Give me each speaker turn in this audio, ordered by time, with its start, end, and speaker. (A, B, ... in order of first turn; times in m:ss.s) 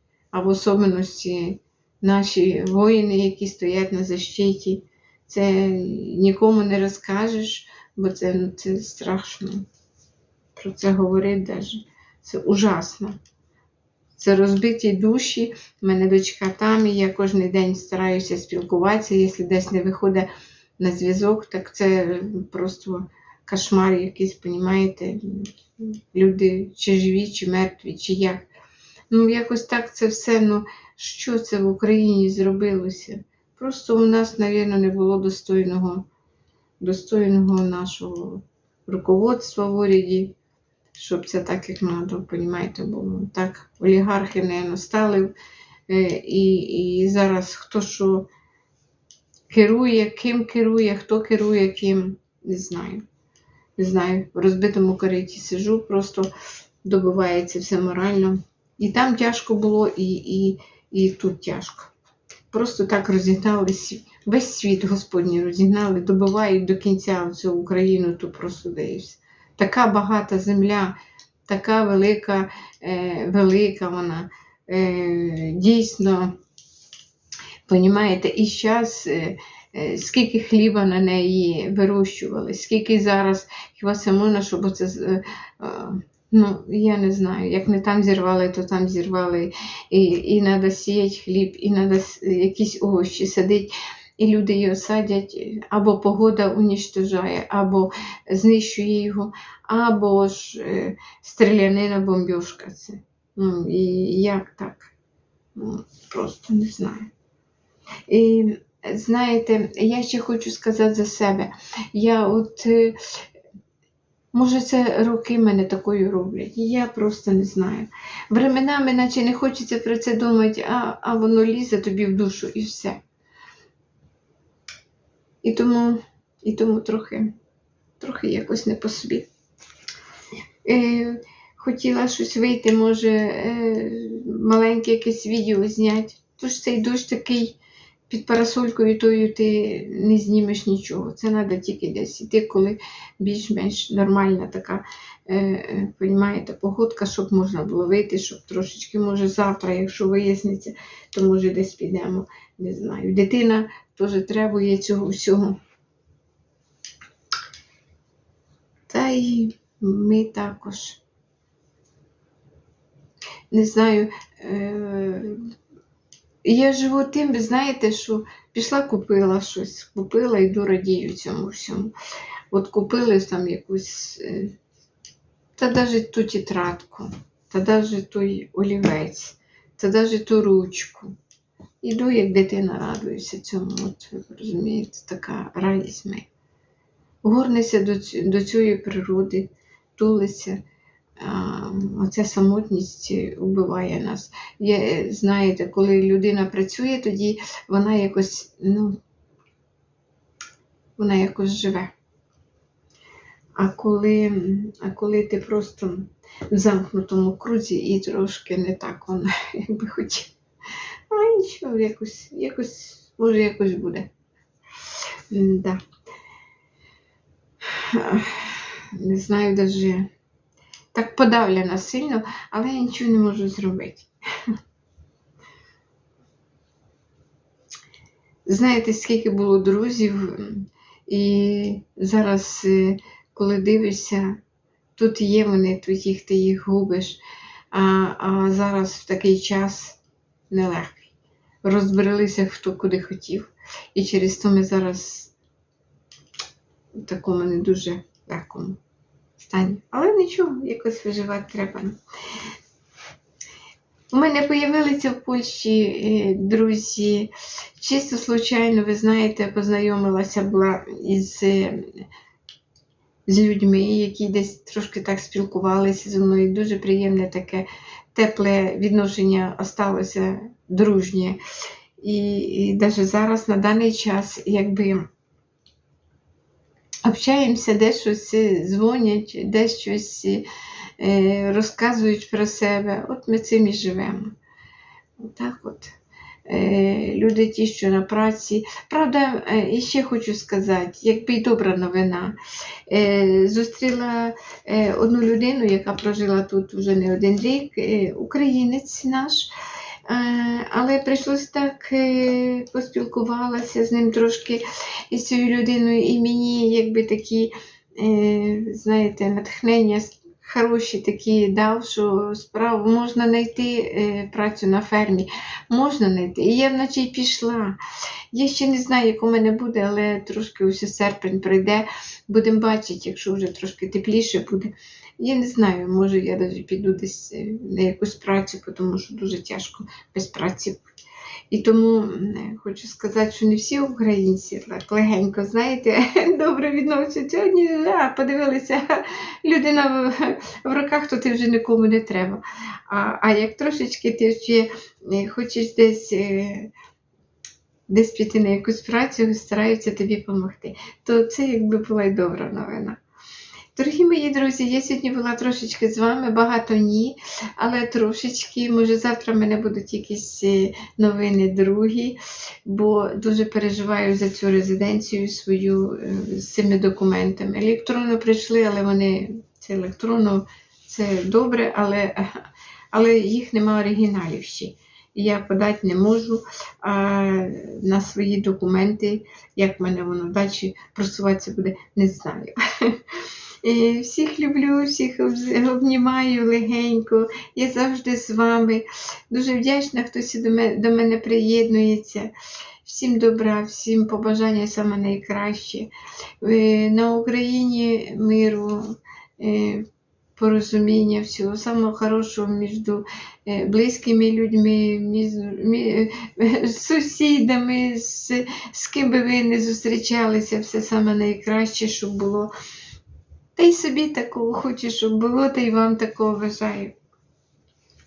0:00.3-0:09.6 A
0:10.6-0:13.2 A
0:14.2-0:20.3 A
0:20.8-0:28.5 A
0:29.1-0:36.1 A
0:36.8-0:40.3 A
0:40.9-0:45.3 A
0:45.9-0:48.3 A
0:49.5-0:53.0 A
0:53.8-0:56.3 A
0:56.8-1:01.9 A
1:02.5-1:11.0 A
1:11.5-1:16.4 A
1:17.7-1:44.9 A
1:45.6-1:47.1 A
1:48.1-1:53.2 A
1:54.3-2:03.0 A
2:05.4-2:07.3 A
2:08.0-2:09.3 A
2:10.6-2:17.6 A
2:18.1-2:35.6 A
2:38.9-2:41.0 A
2:43.5-2:45.4 A
2:46.4-2:51.9 A
2:52.5-2:54.5 A
2:55.6-3:01.1 A
3:01.8-3:06.3 A
3:07.2-3:10.6 A
3:11.2-3:19.0 A
3:21.0-3:21.9 A
3:23.6-3:30.3 A
3:31.1-3:34.1 A
3:35.3-3:35.8 A
3:37.7-3:40.1 A
3:40.9-3:44.5 A
3:48.4-3:54.4 A
3:55.0-3:57.2 A
3:57.7-4:01.1 A
4:01.6-4:05.3 A
4:07.0-4:08.8 A
4:09.4-4:12.0 A
4:14.1-4:21.9 A
4:23.3-4:31.4 A
4:32.0-4:35.0 A
4:37.0-4:40.4 A
4:41.0-4:44.3 A
4:45.2-4:45.9 A
4:46.5-4:52.4 A
4:52.9-4:59.5 A
5:00.1-5:17.8 A
5:18.3-5:30.9 A
5:31.5-5:46.7 A
5:47.9-5:53.0 A
5:53.7-6:12.3 A
6:12.9-6:23.1 A
6:23.6-6:32.3 A
6:32.8-6:35.9 A
6:36.4-6:39.8 A
6:40.4-6:52.5 A
6:53.6-6:56.9 A